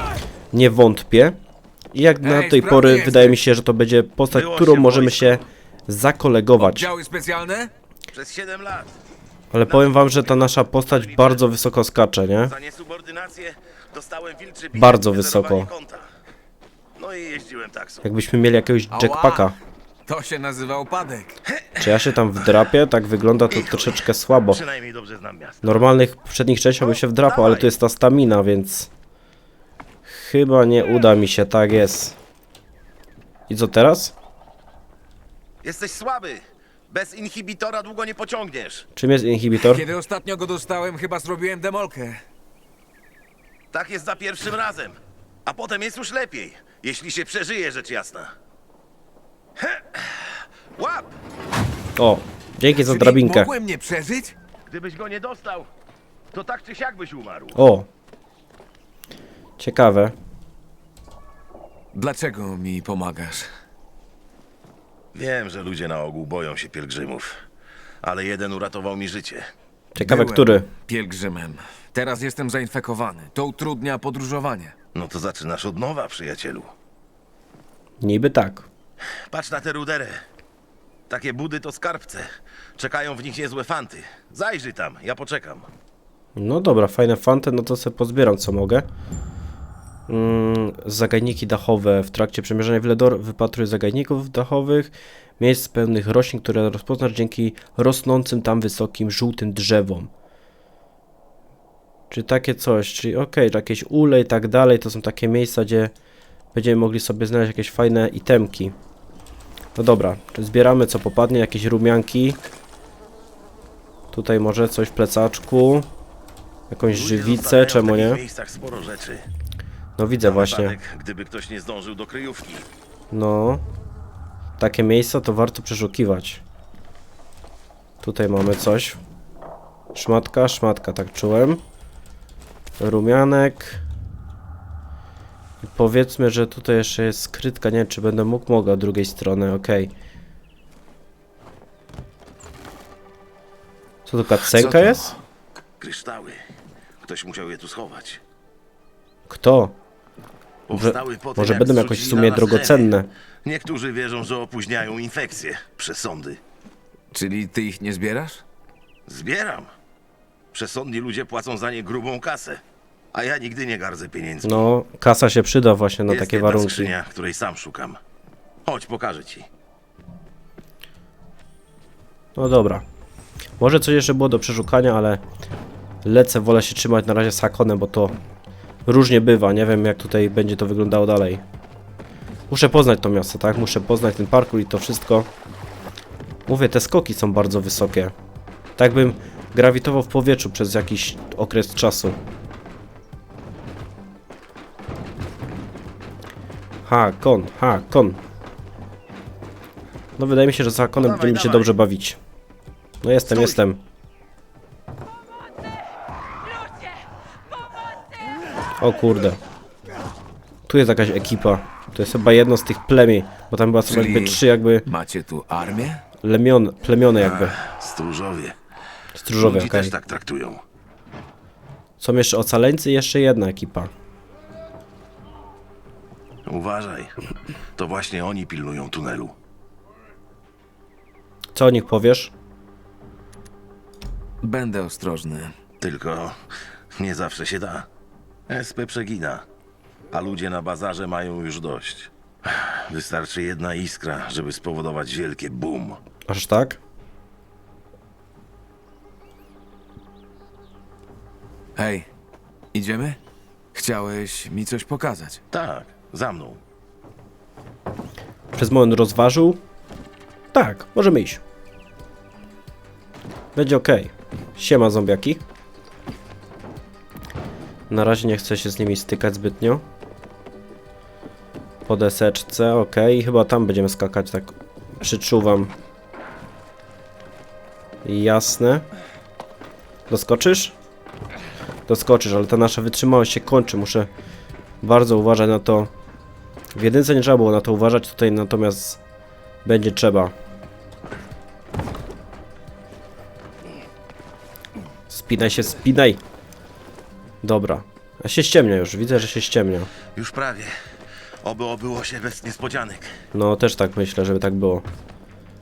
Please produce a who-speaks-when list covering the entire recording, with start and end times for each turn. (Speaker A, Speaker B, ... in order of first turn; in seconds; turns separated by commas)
Speaker A: 0.5-1.4, Speaker A: 1.9-6.9, Speaker B: 2.2-3.4, Speaker C: 4.3-5.4, Speaker B: 6.6-7.7, Speaker C: 8.1-8.9, Speaker A: 9.5-12.5, Speaker C: 9.7-10.3, Speaker C: 10.9-11.4, Speaker C: 12.4-16.1, Speaker A: 14.8-15.7, Speaker C: 17.0-18.1, Speaker A: 18.0-19.6, Speaker B: 18.9-19.5, Speaker B: 20.1-21.4, Speaker C: 21.5-22.5, Speaker A: 21.8-24.6, Speaker C: 23.5-25.9, Speaker A: 25.6-28.9, Speaker C: 26.8-27.7, Speaker A: 30.1-32.2, Speaker A: 33.5-34.1, Speaker C: 35.6-38.9, Speaker A: 39.0-39.8, Speaker B: 39.5-42.2, Speaker C: 43.7-48.3, Speaker C: 49.6-51.1, Speaker A: 52.0-53.5, Speaker B: 52.7-54.4, Speaker C: 54.7-55.7, Speaker C: 56.3-57.5, Speaker A: 57.5-57.9, Speaker A: 59.6-60.1, Speaker B: 61.9-63.5, Speaker C: 65.1-67.4, Speaker C: 68.0-69.5, Speaker A: 69.9-70.7, Speaker B: 70.0-74.7, Speaker C: 74.9-76.7, Speaker A: 78.0-78.7, Speaker C: 79.3-80.2, Speaker C: 81.1-85.7, Speaker A: 86.3-88.8, Speaker A: 90.1-100.1, Speaker A: 102.1-105.9, Speaker A: 106.5-108.7, Speaker A: 109.8-112.4, Speaker A: 114.1-115.9, Speaker A: 116.7-118.2, Speaker C: 116.9-119.2, Speaker A: 120.0-120.8, Speaker C: 120.2-122.7, Speaker A: 123.1-123.6, Speaker A: 124.6-126.4, Speaker A: 128.0-129.0, Speaker A: 129.9-131.6, Speaker A: 132.8-133.8, Speaker A: 135.6-139.9, Speaker A: 144.1-145.1, Speaker B: 144.4-145.2, Speaker C: 145.8-146.4, Speaker C: 147.0-148.2, Speaker A: 149.3-149.7, Speaker C: 150.7-152.9, Speaker A: 150.7-153.1, Speaker C: 153.4-156.4, Speaker B: 157.1-158.4, Speaker C: 159.1-159.7, Speaker C: 160.5-162.6, Speaker C: 163.1-164.6, Speaker A: 164.4-166.9, Speaker C: 166.1-168.0, Speaker C: 168.7-169.5, Speaker A: 172.3-172.8, Speaker A: 173.6-175.2, Speaker A: 176.0-178.1, Speaker A: 178.8-181.4, Speaker A: 182.5-185.3, Speaker A: 186.5-188.1, Speaker A: 188.8-192.2, Speaker A: 196.8-198.2, Speaker A: 200.2-202.2, Speaker C: 201.0-201.7, Speaker A: 203.0-203.8, Speaker C: 203.3-203.6, Speaker A: 208.8-209.4, Speaker A: 210.7-214.8, Speaker B: 213.8-216.0, Speaker A: 216.2-217.6, Speaker C: 217.2-218.6, Speaker A: 219.1-219.9, Speaker C: 219.4-220.6, Speaker A: 222.0-223.9, Speaker C: 226.4-227.2, Speaker C: 227.8-229.3, Speaker A: 231.5-232.3, Speaker B: 234.4-235.6, Speaker C: 235.8-236.3, Speaker C: 236.9-237.9, Speaker C: 238.5-239.4, Speaker C: 240.1-246.0, Speaker A: 246.3-246.8, Speaker B: 251.8-252.1, Speaker B: 252.7-253.2, Speaker B: 253.7-255.4, Speaker C: 255.5-256.6, Speaker A: 258.5-259.6, Speaker A: 260.5-261.4, Speaker A: 263.5-265.4, Speaker A: 267.9-269.8, Speaker A: 271.9-275.7, Speaker A: 278.0-278.8, Speaker A: 280.1-280.7, Speaker A: 281.9-284.1, Speaker A: 284.8-285.9, Speaker A: 286.7-289.0, Speaker A: 289.6-290.3, Speaker A: 295.1-296.2, Speaker A: 297.4-299.9, Speaker C: 300.1-300.7, Speaker C: 301.4-303.1, Speaker A: 303.3-304.8